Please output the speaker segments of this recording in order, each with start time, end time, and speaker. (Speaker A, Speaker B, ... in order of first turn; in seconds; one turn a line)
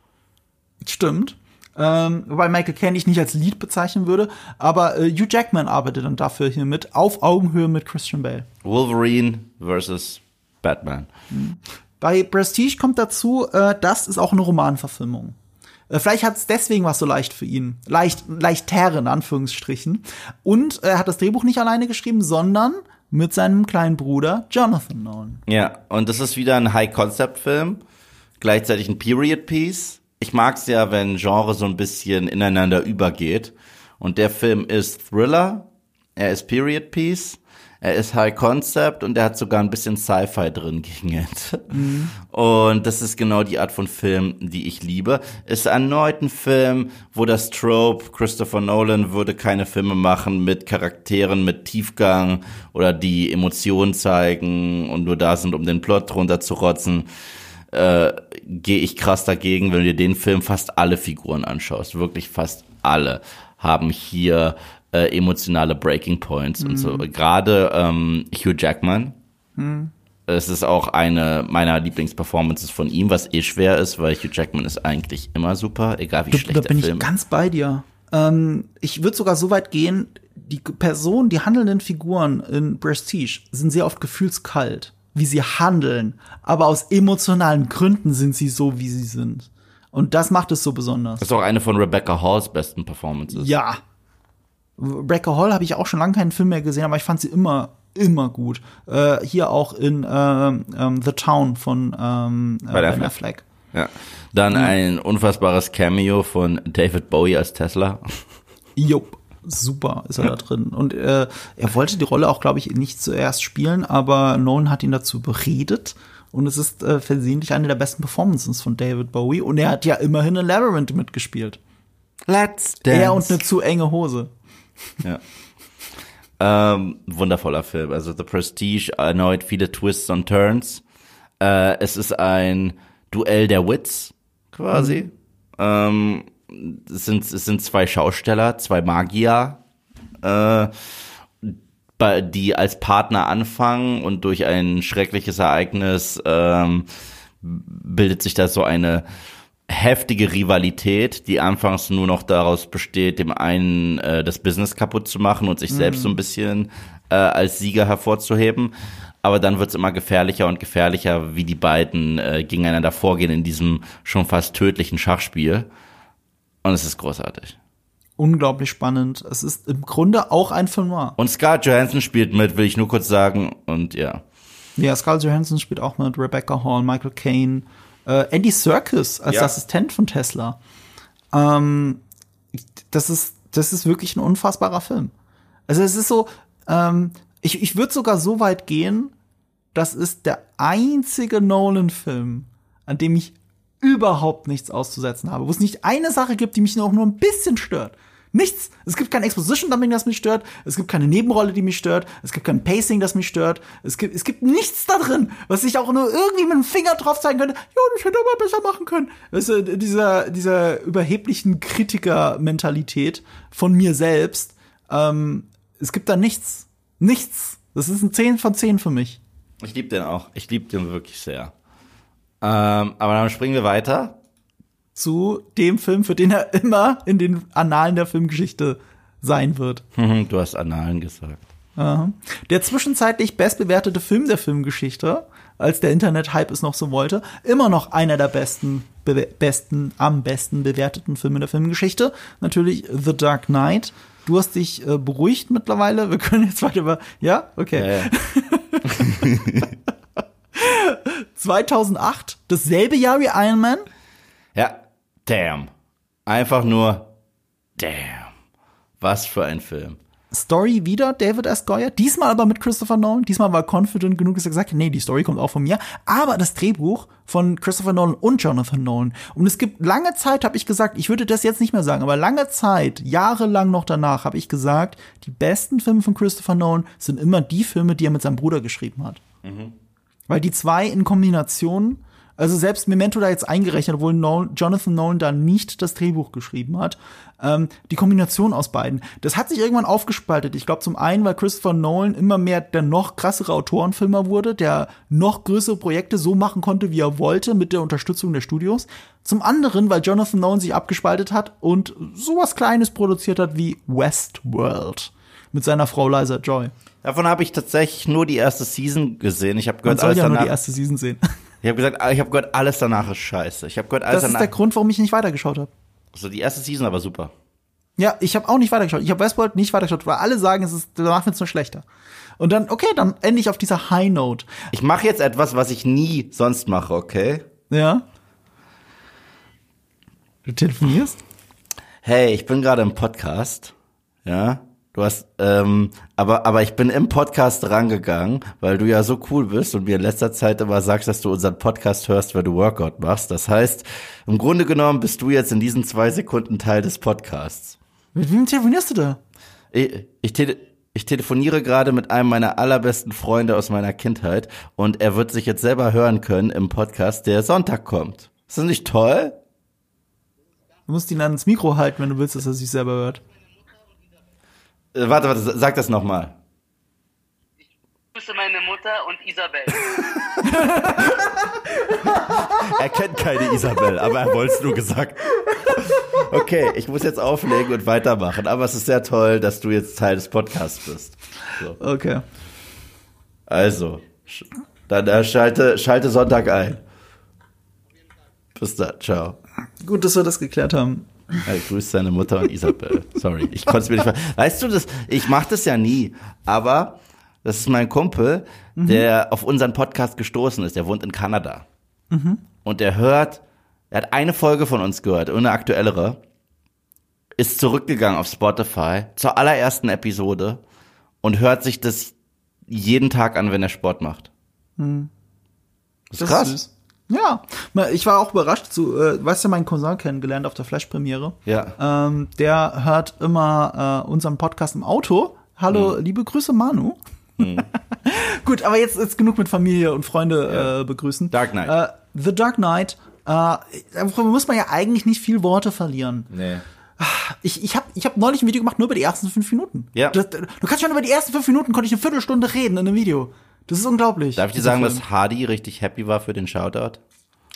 Speaker A: 0.8-8.5
Speaker B: 8.6-11.1
Speaker A: 11.3-15.3
Speaker A: 15.9-25.4
Speaker B: 25.5-27.8
Speaker B: 28.4-57.1
Speaker A: 41.7-42.1
Speaker B: 57.7-69.1
Speaker A: 66.6-67.0
Speaker A: 69.6-69.9
Speaker B: 70.3-77.1
Speaker A: 76.3-91.2
Speaker B: 91.2-93.5
Speaker A: 93.3-93.8
Speaker A: 94.8-103.4
Speaker B: 102.7-103.1
Speaker B: 103.7-108.2
Speaker A: 108.8-121.6
Speaker B: 122.3-123.4
Speaker A: 122.9-124.3
Speaker B: 126.4-130.8
Speaker B: 131.4-139.6
Speaker A: 134.7-135.0
Speaker B: 140.2-140.7
Speaker B: 141.4-146.9
Speaker B: 147.4-149.0
Speaker B: 149.7-158.7
Speaker A: 155.7-156.2
Speaker B: 159.2-165.7
Speaker B: 166.6-167.6
Speaker A: 168.2-171.2
Speaker B: 171.2-174.2
Speaker A: 174.8-180.6
Speaker B: 179.3-179.5
Speaker A: 181.3-182.0
Speaker A: 182.5-185.1
Speaker A: 185.7-189.1
Speaker A: 189.7-219.2
Speaker B: 219.6-221.5
Speaker B: 222.4-224.2
Speaker A: 224.9-229.8
Speaker B: 229.9-231.4
Speaker A: 231.8-249.4
Speaker B: 247.8-248.1
Speaker B: 248.9-249.7
Speaker A: 250.5-253.8
Speaker B: 254.5-255.7
Speaker B: 256.3-257.1
Speaker B: 257.8-258.3
Speaker B: 259.0-260.0
Speaker A: 260.3-279.2
Speaker B: 279.4-279.7
Speaker A: 280.3-306.7
Speaker B: 307.0-310.5
Speaker A: 309.9-311.2
Speaker B: 311.6-314.5
Speaker A: 314.1-315.7
Speaker B: 316.1-317.3
Speaker A: 318.0-321.8
Speaker A: 322.4-324.5
Speaker B: 324.7-327.4
Speaker A: 327.7-328.0
Speaker A: 330.4-331.2
Speaker B: 332.0-333.7
Speaker B: 334.2-347.8
Speaker A: 348.1-349.2
Speaker B: 349.7-359.4
Speaker A: 360.9-363.2
Speaker B: 364.9-366.3
Speaker C: 368.1-370.3
Speaker B: 369.8-371.1
Speaker A: 370.4-372.8
Speaker B: 372.0-381.8
Speaker A: 375.5-376.2
Speaker A: 381.8-382.2
Speaker B: 383.5-386.8
Speaker B: 388.5-389.4
Speaker A: 389.8-391.4
Speaker B: 391.4-401.6
Speaker A: 398.8-399.1
Speaker A: 402.1-402.4
Speaker B: 402.6-406.2
Speaker B: 407.4-410.6
Speaker B: 411.2-412.1
Speaker B: 412.7-414.3
Speaker A: 414.8-415.1
Speaker B: 416.1-416.6
Speaker A: 416.2-436.3
Speaker B: 421.4-421.8
Speaker B: 427.4-427.7
Speaker B: 431.3-431.7
Speaker B: 436.3-436.6
Speaker A: 437.0-445.0
Speaker B: 444.4-447.0